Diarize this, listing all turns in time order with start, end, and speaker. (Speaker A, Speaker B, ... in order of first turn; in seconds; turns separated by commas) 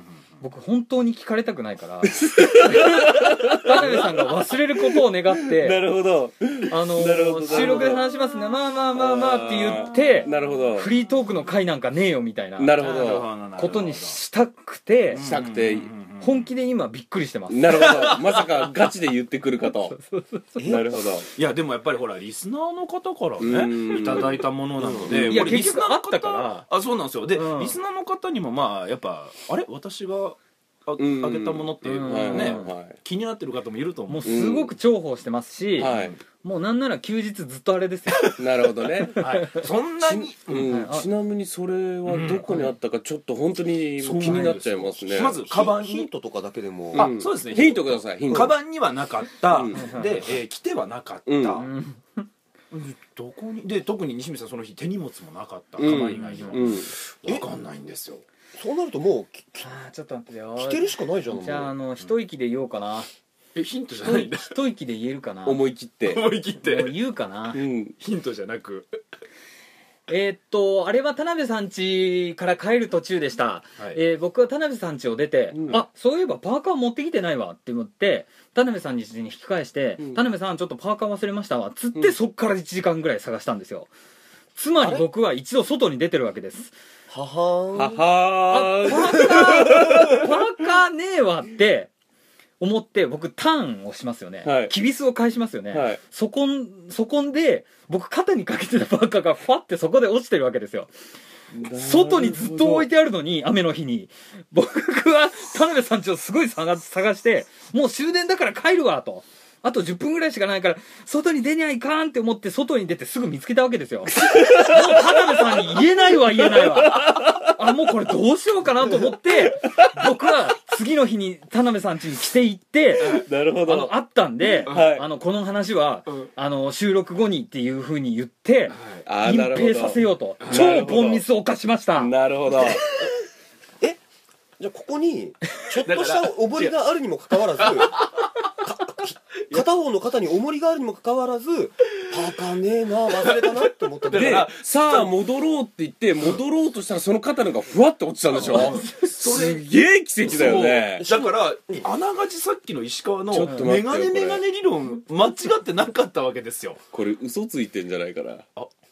Speaker A: 0.4-5.8, Speaker B: 2.1-4.2, Speaker B: 5.5-8.0, Speaker A: 6.7-15.2, Speaker C: 7.5-8.0, Speaker B: 9.0-10.9, Speaker B: 12.6-13.3, Speaker C: 12.8-14.2, Speaker C: 15.1-16.5, Speaker B: 15.1-15.9, Speaker A: 16.2-18.2, Speaker B: 17.5-20.0, Speaker C: 17.7-18.4, Speaker A: 19.9-20.8, Speaker D: 20.6-21.0, Speaker B: 20.6-21.3, Speaker C: 21.3-34.5, Speaker B: 23.4-25.7, Speaker D: 24.8-25.2, Speaker A: 25.2-26.7, Speaker A: 27.3-27.8, Speaker B: 31.0-33.0, Speaker A: 31.8-32.7, Speaker A: 34.1-38.4, Speaker B: 34.2-34.7, Speaker B: 35.8-36.2, Speaker C: 35.8-36.2, Speaker B: 38.4-39.3, Speaker A: 39.2-39.7, Speaker C: 39.2-40.7, Speaker B: 40.0-45.4, Speaker A: 40.5-41.1, Speaker C: 42.1-42.7, Speaker A: 42.5-42.7, Speaker C: 44.0-46.1, Speaker D: 45.3-47.1, Speaker C: 46.9-51.7, Speaker B: 47.0-48.5, Speaker B: 49.5-49.9, Speaker A: 49.7-50.2, Speaker B: 51.3-51.6, Speaker A: 51.6-52.2, Speaker C: 52.7-58.2, Speaker B: 55.8-56.9, Speaker A: 55.9-56.6, Speaker D: 58.5-59.7, Speaker A: 59.6-63.1, Speaker D: 60.6-61.7, Speaker C: 63.5-64.6, Speaker A: 64.0-65.6, Speaker B: 65.5-66.2, Speaker C: 66.0-67.0, Speaker A: 66.6-67.6, Speaker B: 67.5-68.0, Speaker C: 68.0-69.0, Speaker A: 70.1-83.9, Speaker C: 73.8-74.0, Speaker B: 75.5-75.8, Speaker A: 84.6-86.7, Speaker D: 84.8-85.1, Speaker D: 87.1-88.0, Speaker B: 87.7-90.3, Speaker A: 88.5-91.9, Speaker A: 92.6-100.9, Speaker B: 94.4-94.7, Speaker B: 95.7-96.0, Speaker B: 101.5-102.9, Speaker A: 101.6-132.1, Speaker B: 114.1-115.8, Speaker B: 116.4-117.6, Speaker B: 119.6-120.1, Speaker B: 123.0-123.9, Speaker C: 123.0-123.2, Speaker B: 124.6-125.0, Speaker C: 124.6-124.9, Speaker C: 128.7-129.1, Speaker B: 129.1-131.2, Speaker C: 130.4-131.0, Speaker B: 132.0-132.8, Speaker D: 134.6-144.5, Speaker B: 135.8-136.7, Speaker C: 143.2-145.1, Speaker B: 144.1-151.1, Speaker C: 148.3-149.7, Speaker A: 148.4-149.1, Speaker C: 150.2-156.8, Speaker D: 150.3-151.9, Speaker B: 153.3-154.4, Speaker B: 156.9-158.4